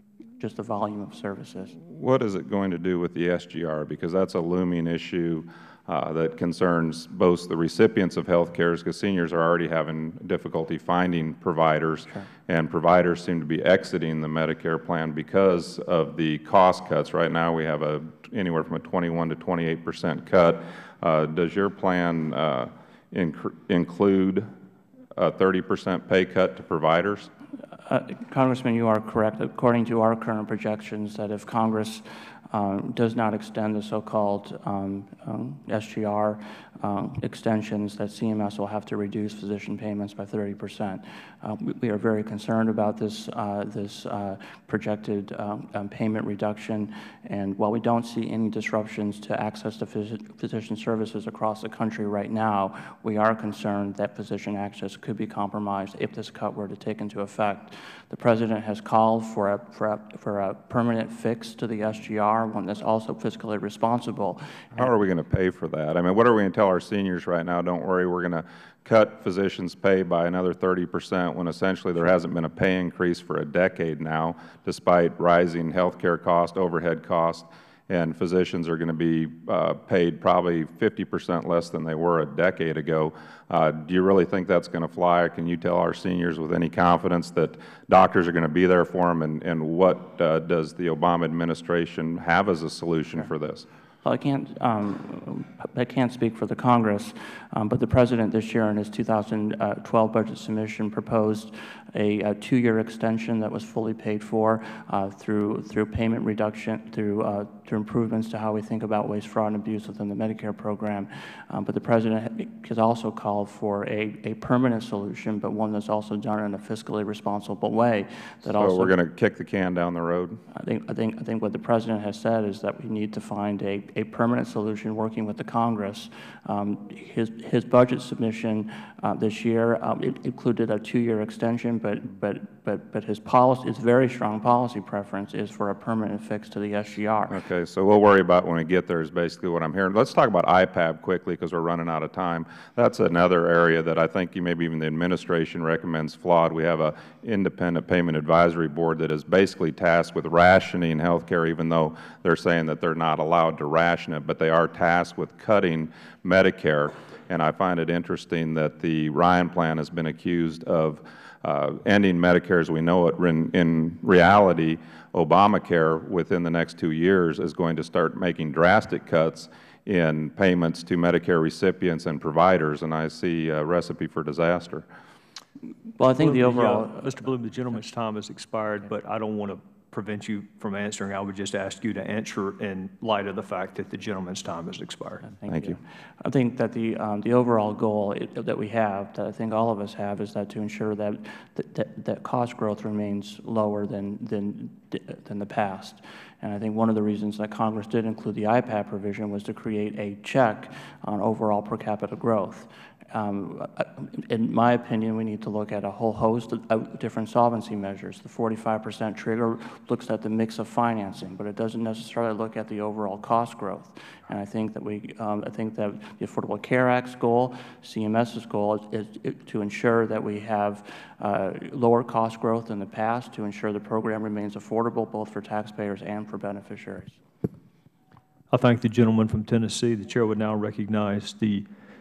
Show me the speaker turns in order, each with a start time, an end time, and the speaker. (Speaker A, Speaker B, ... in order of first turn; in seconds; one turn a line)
Speaker A: 0.4-1.8
Speaker B: 1.9-24.5
Speaker B: 25.1-27.3
Speaker A: 27.9-64.9
Speaker B: 64.8-93.7
Speaker A: 94.0-118.9
Speaker B: 118.5-120.4
Speaker A: 120.5-137.4
Speaker B: 137.3-174.9
Speaker A: 176.0-177.3
Speaker C: 176.2-185.3
Speaker A: 185.3-227.2
Speaker B: 185.5-185.8
Speaker C: 228.5-231.7